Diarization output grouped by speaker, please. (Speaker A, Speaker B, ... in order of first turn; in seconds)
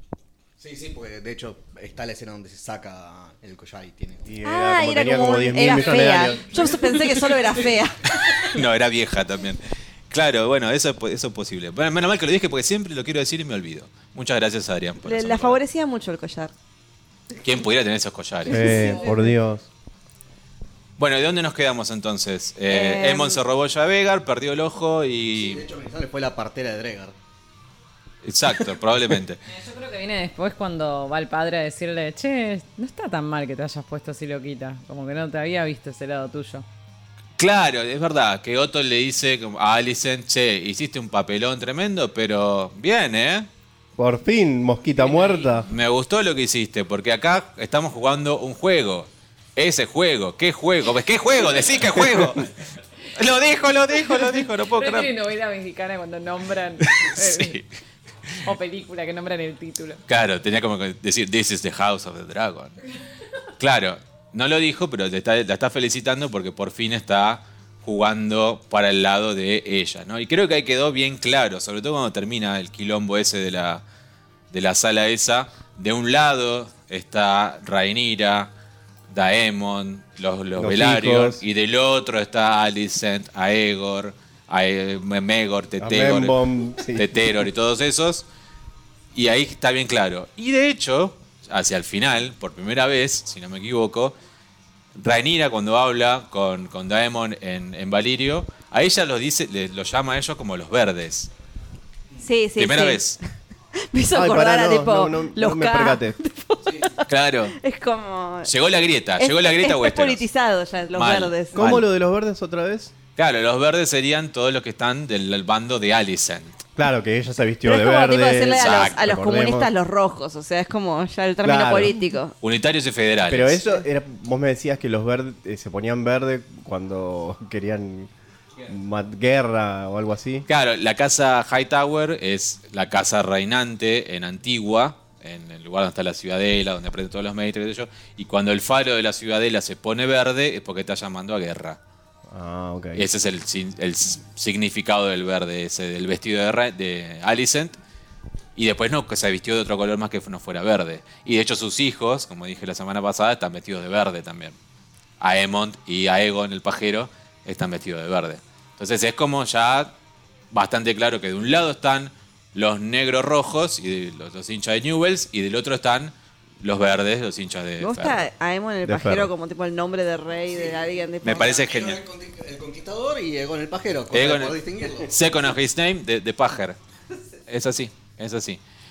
Speaker A: 0.6-4.3, 25.3-27.1, 106.7-106.9, 170.5-175.1
Speaker B: 4.3-6.6, 18.5-19.7, 44.0-45.7, 80.6-81.4, 85.8-87.4, 104.1-106.2, 111.5-112.9, 116.8-119.7, 121.4-122.0, 123.3-128.1, 128.7-130.5, 142.3-143.1, 168.8-169.3
Speaker C: 4.4-8.1, 15.0-16.5, 18.7-19.3, 22.7-23.4, 102.2-103.0, 103.8-108.5, 109.2-111.7, 117.7-122.3, 167.8-171.5
Speaker D: 8.3-15.6, 17.4-18.9, 21.0-25.6, 28.2-29.4, 37.4-43.5, 45.7-52.5, 53.1-55.1, 56.8-57.6, 60.1-62.8, 63.6-73.8, 74.5-78.5, 79.1-86.4, 86.9-88.2, 89.1-94.2, 95.0-101.3, 102.6-103.2, 107.1-107.6, 108.5-110.3, 110.9-111.9, 113.2-116.6, 118.6-119.0, 122.4-123.6, 130.5-141.8, 142.9-147.8, 148.6-154.6, 155.2-159.9, 160.5-168.2, 171.2-172.0, 174.1-176.8, 177.5-178.6
Speaker E: 29.5-36.6, 45.1-45.5, 54.7-57.6, 58.4-60.0